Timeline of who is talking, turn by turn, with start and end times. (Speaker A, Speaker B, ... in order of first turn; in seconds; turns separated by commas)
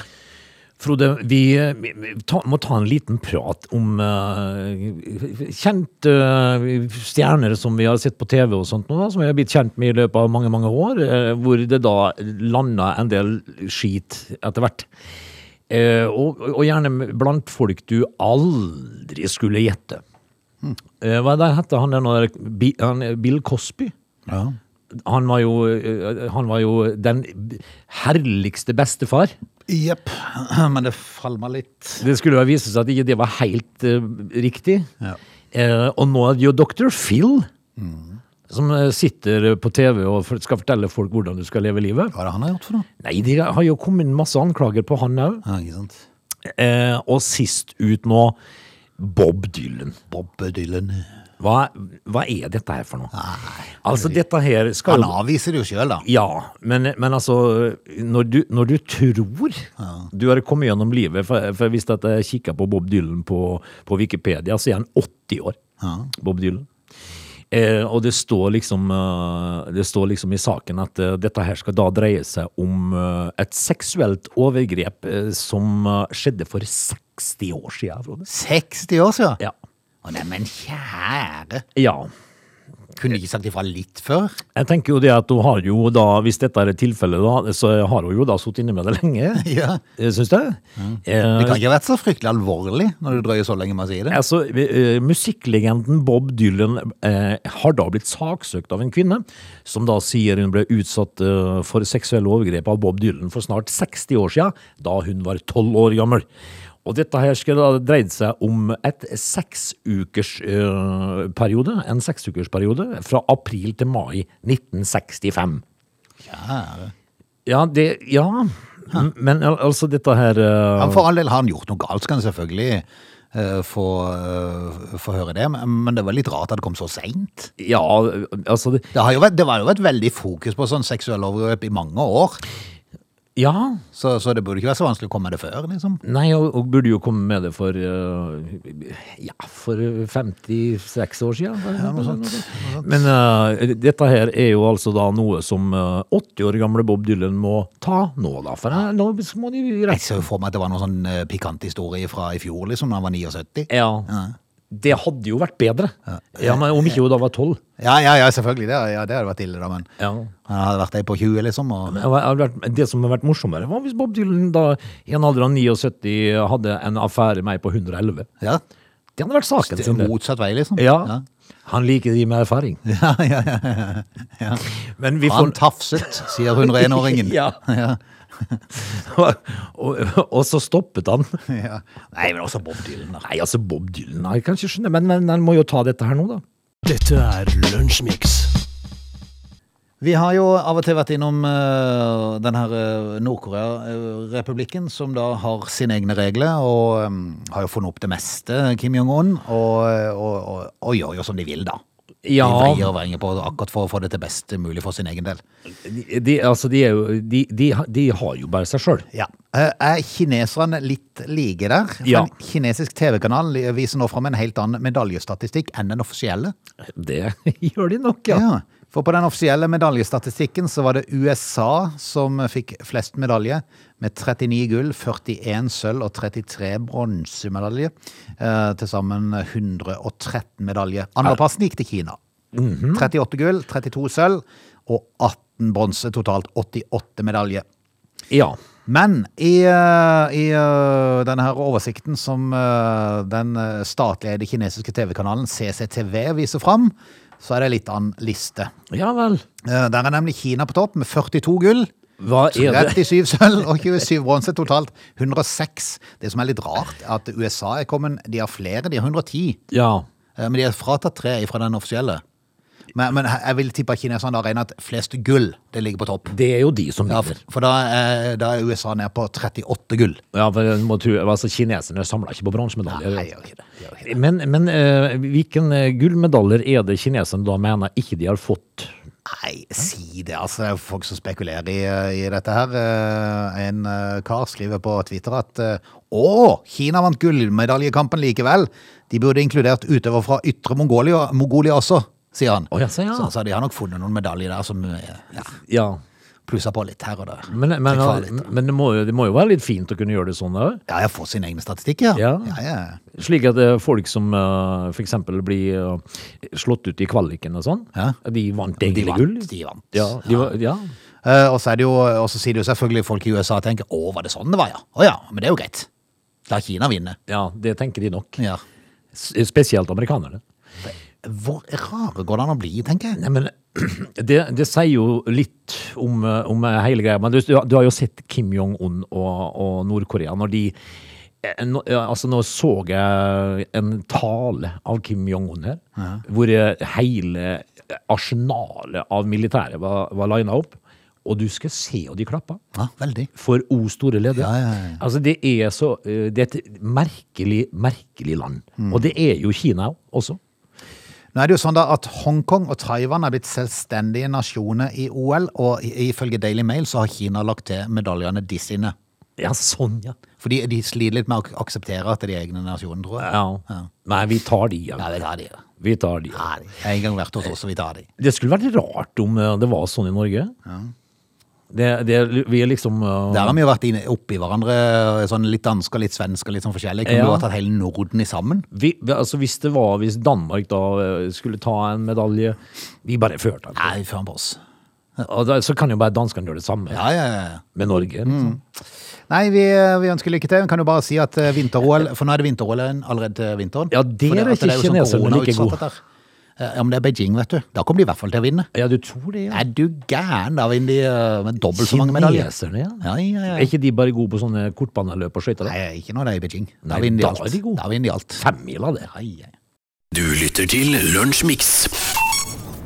Speaker A: 0.8-14.9, Speaker A: 15.7-20.0, Speaker A: 21.0-23.9, Speaker B: 24.3-24.6, Speaker A: 24.9-29.3, Speaker B: 29.7-32.0, Speaker A: 32.0-34.9, Speaker A: 35.5-37.5, Speaker B: 37.8-38.2, Speaker A: 38.5-42.1, Speaker B: 42.1-42.9, Speaker A: 43.0-45.4, Speaker B: 45.5-46.0, Speaker A: 46.5-48.4, Speaker A: 49.0-50.0, Speaker B: 50.1-51.1, Speaker A: 51.4-53.1, Speaker B: 53.1-54.2, Speaker A: 53.8-55.2, Speaker B: 54.9-56.0, Speaker A: 56.0-65.6, Speaker B: 59.8-60.1, Speaker B: 65.8-66.1, Speaker A: 66.2-66.7, Speaker A: 67.5-78.3, Speaker B: 78.3-79.4, Speaker B: 80.0-81.7, Speaker A: 81.8-82.1, Speaker B: 83.0-84.4, Speaker A: 84.5-91.6, Speaker B: 89.4-89.8, Speaker B: 90.8-94.2, Speaker A: 94.1-106.3, Speaker A: 106.8-115.6, Speaker B: 116.2-116.9, Speaker A: 117.5-121.0, Speaker B: 120.8-127.5, Speaker A: 127.6-128.9, Speaker B: 128.9-132.4, Speaker A: 133.4-133.8, Speaker B: 133.9-136.0, Speaker A: 136.0-150.2, Speaker B: 141.8-143.1, Speaker B: 149.9-154.3, Speaker A: 153.7-154.1, Speaker A: 154.7-157.6, Speaker B: 156.2-157.0, Speaker B: 157.8-159.9, Speaker A: 160.0-160.3, Speaker B: 160.5-162.0, Speaker A: 161.9-168.3, Speaker A: 169.2-170.1, Speaker B: 169.6-171.2, Speaker A: 170.8-171.1, Speaker A: 171.7-172.8, Speaker B: 172.8-174.7, Speaker A: 175.0-177.6, Speaker B: 175.2-178.6, Speaker A: 178.8-181.4, Speaker B: 181.5-183.2, Speaker A: 183.2-186.4, Speaker C: 186.8-188.5, Speaker B: 190.0-201.8, Speaker A: 202.2-202.9, Speaker B: 202.4-205.4, Speaker A: 205.8-209.1, Speaker B: 209.1-216.5, Speaker A: 212.1-212.3, Speaker A: 216.9-218.4, Speaker B: 218.3-232.2, Speaker A: 232.5-233.1, Speaker B: 232.9-237.7, Speaker A: 238.3-238.6, Speaker B: 238.9-248.7, Speaker A: 248.9-249.4, Speaker B: 249.6-251.9, Speaker A: 252.2-253.1, Speaker B: 252.5-259.6, Speaker A: 259.7-260.1, Speaker B: 260.4-262.2, Speaker B: 262.9-266.4, Speaker A: 266.3-267.4, Speaker B: 267.1-270.2, Speaker A: 270.3-273.3, Speaker B: 272.9-274.1, Speaker A: 274.0-278.9, Speaker B: 279.3-295.5, Speaker A: 292.7-293.3, Speaker A: 295.4-296.0, Speaker B: 296.5-298.5, Speaker A: 297.5-300.8, Speaker B: 300.9-303.0, Speaker A: 302.1-302.6, Speaker A: 303.1-310.9, Speaker B: 308.8-310.5, Speaker B: 311.2-315.9, Speaker B: 316.5-317.2, Speaker A: 317.3-318.4, Speaker A: 319.1-320.4, Speaker B: 320.9-323.2, Speaker A: 323.2-330.8, Speaker A: 331.4-342.6, Speaker B: 342.8-343.3, Speaker A: 343.4-350.4, Speaker B: 344.4-345.0, Speaker B: 351.4-358.9, Speaker A: 359.4-360.2, Speaker B: 360.4-363.9, Speaker A: 363.2-365.1, Speaker B: 365.0-365.6, Speaker A: 365.8-366.5, Speaker B: 366.3-368.1, Speaker A: 368.2-370.6, Speaker B: 370.7-370.9, Speaker A: 371.7-373.6, Speaker B: 373.3-378.7, Speaker A: 377.1-377.5, Speaker A: 378.7-383.9, Speaker B: 383.8-384.6, Speaker A: 385.2-387.1, Speaker B: 386.9-387.6, Speaker A: 387.8-388.5, Speaker B: 388.2-388.6, Speaker B: 389.3-396.0, Speaker A: 393.9-395.8, Speaker B: 396.6-398.7, Speaker A: 398.7-399.6, Speaker B: 399.5-402.5, Speaker A: 401.7-405.7, Speaker B: 403.0-403.7, Speaker B: 405.6-408.4, Speaker A: 406.9-407.8, Speaker A: 408.4-409.1, Speaker B: 409.1-409.5, Speaker C: 410.1-412.0